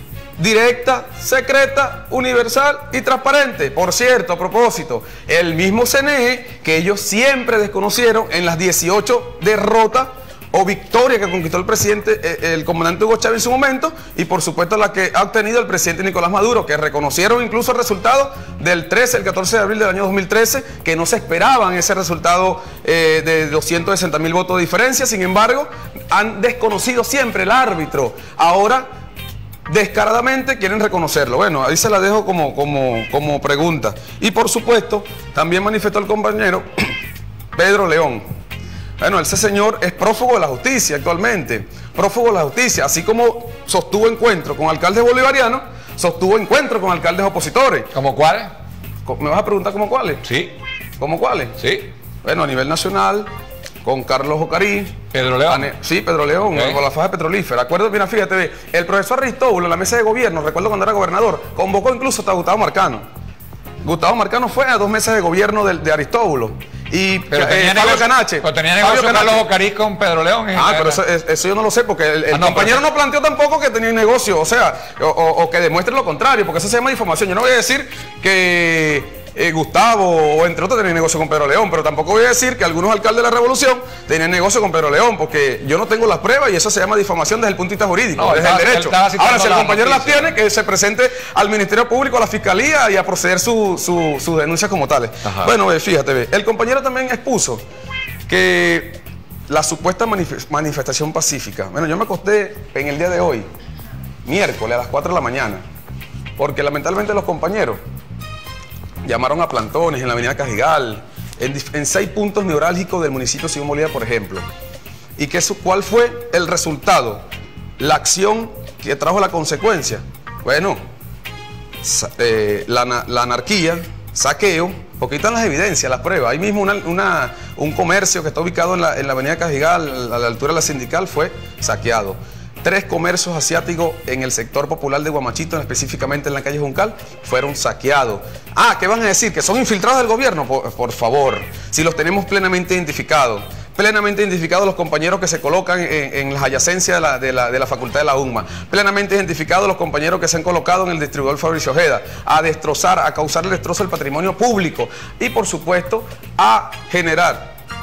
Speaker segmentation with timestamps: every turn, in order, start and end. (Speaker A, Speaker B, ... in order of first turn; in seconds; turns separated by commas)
Speaker A: 0.4-28.9, Speaker A: 29.7-36.9, Speaker A: 37.5-38.2, Speaker A: 39.0-47.9, Speaker B: 47.9-48.5, Speaker A: 49.0-50.3, Speaker B: 50.2-50.5, Speaker A: 51.0-51.6, Speaker B: 51.6-51.9, Speaker A: 52.2-53.3, Speaker A: 53.8-63.0, Speaker B: 55.1-55.7, Speaker B: 56.5-56.8, Speaker A: 63.8-69.4, Speaker B: 67.3-71.0, Speaker A: 70.5-97.6, Speaker B: 72.3-72.8, Speaker B: 88.2-90.3, Speaker B: 95.2-95.5, Speaker A: 98.3-103.5, Speaker A: 104.2-105.6, Speaker A: 106.4-107.8, Speaker A: 109.0-114.5, Speaker A: 115.2-117.2, Speaker A: 117.8-120.8, Speaker A: 121.8-157.5